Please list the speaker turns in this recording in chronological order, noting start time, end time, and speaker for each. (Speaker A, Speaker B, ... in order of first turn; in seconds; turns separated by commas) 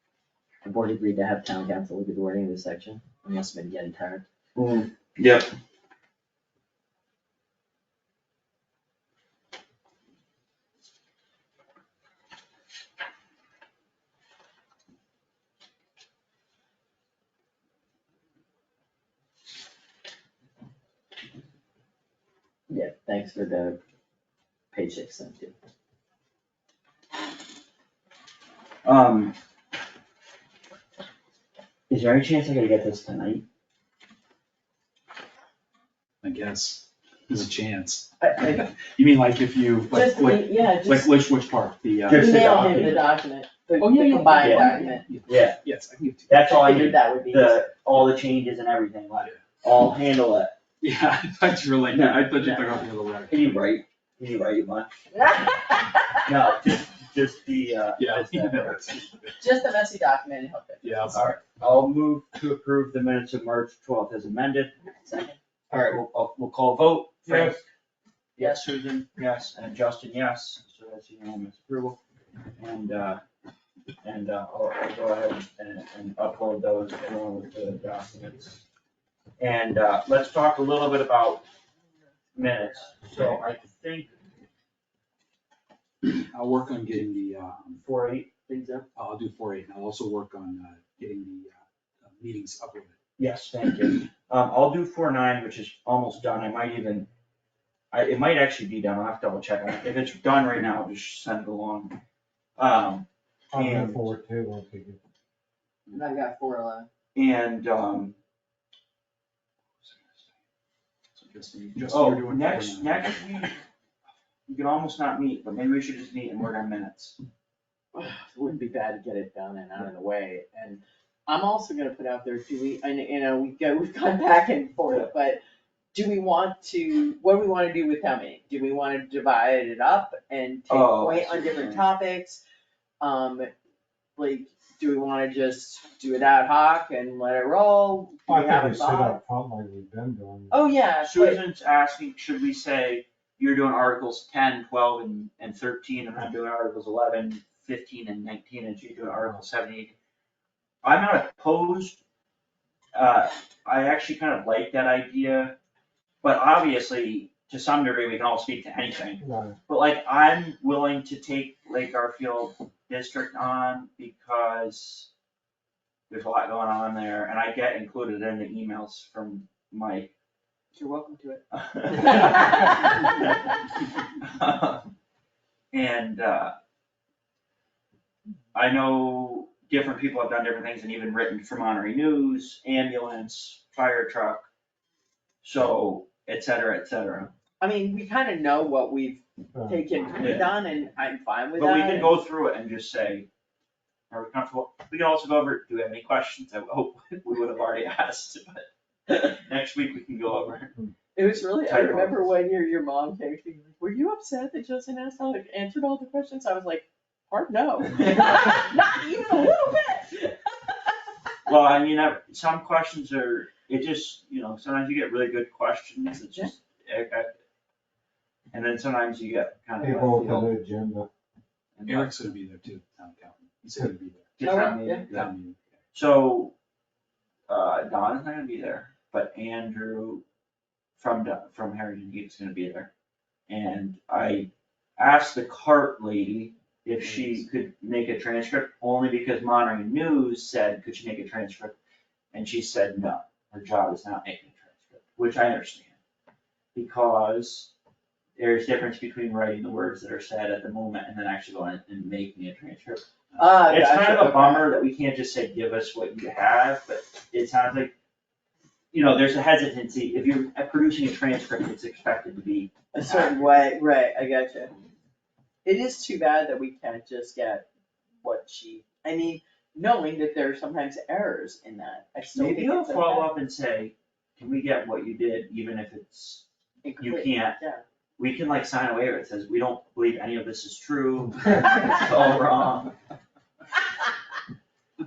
Speaker A: 0.6-4.2, Speaker B: 4.6-5.5, Speaker A: 22.7-23.8, Speaker A: 24.7-25.5, Speaker B: 28.9-29.3, Speaker B: 31.9-33.5, Speaker C: 36.2-43.0, Speaker A: 39.9-41.1, Speaker B: 42.1-43.1, Speaker A: 42.1-45.0, Speaker C: 43.8-46.7, Speaker B: 44.4-44.8, Speaker B: 45.3-45.6, Speaker B: 46.3-50.5, Speaker A: 46.5-47.7, Speaker C: 50.8-53.6, Speaker B: 51.9-55.0, Speaker A: 55.1-56.2, Speaker B: 56.3-58.8, Speaker C: 58.0-59.3, Speaker A: 59.4-61.2, Speaker C: 60.8-61.2, Speaker B: 61.1-64.7, Speaker A: 65.0-65.4, Speaker B: 65.7-67.6, Speaker B: 68.4-72.0, Speaker A: 68.4-68.7, Speaker B: 72.6-73.2, Speaker B: 74.0-78.6, Speaker B: 79.4-81.5, Speaker B: 82.3-84.1, Speaker C: 86.2-87.8, Speaker B: 87.8-88.9, Speaker C: 89.0-93.0, Speaker B: 93.2-97.1, Speaker B: 97.9-102.0, Speaker B: 102.6-104.1, Speaker D: 103.5-105.0, Speaker A: 105.9-106.9, Speaker B: 107.2-108.2, Speaker C: 111.2-113.3, Speaker B: 111.9-113.6, Speaker B: 114.5-117.2, Speaker A: 117.9-125.4, Speaker A: 125.9-132.4, Speaker B: 130.7-131.9, Speaker A: 133.0-133.5, Speaker A: 134.2-139.2, Speaker D: 138.3-140.7, Speaker A: 140.5-141.4, Speaker B: 141.0-149.9, Speaker B: 150.8-152.0, Speaker B: 152.9-155.6, Speaker B: 156.2-165.1, Speaker D: 159.2-159.6, Speaker B: 166.1-170.1, Speaker A: 170.8-171.4, Speaker B: 171.5-173.5, Speaker A: 172.0-172.9, Speaker B: 174.2-174.9, Speaker B: 175.7-176.5, Speaker B: 178.5-184.5, Speaker B: 185.4-187.3, Speaker A: 187.6-192.1, Speaker D: 189.5-189.9, Speaker B: 190.2-190.5, Speaker B: 191.6-193.3, Speaker B: 194.1-200.7, Speaker A: 201.2-210.4, Speaker B: 201.6-202.2, Speaker B: 207.9-208.5, Speaker B: 211.5-217.3, Speaker B: 218.5-220.5, Speaker D: 219.8-221.1, Speaker B: 221.8-222.2, Speaker C: 221.9-224.3, Speaker B: 224.4-225.3, Speaker A: 224.4-225.1, Speaker C: 225.1-225.6, Speaker B: 225.9-226.5, Speaker B: 227.5-230.2, Speaker B: 231.0-232.9, Speaker B: 233.5-241.8, Speaker C: 237.0-237.4, Speaker B: 242.3-245.9, Speaker B: 246.8-247.7, Speaker B: 248.4-253.0, Speaker A: 253.4-254.7, Speaker B: 253.6-257.9, Speaker B: 258.9-263.4, Speaker A: 262.9-264.7, Speaker A: 265.6-267.7, Speaker A: 268.2-273.3, Speaker B: 272.3-276.4, Speaker A: 276.8-277.8, Speaker B: 277.0-277.6, Speaker B: 278.2-282.9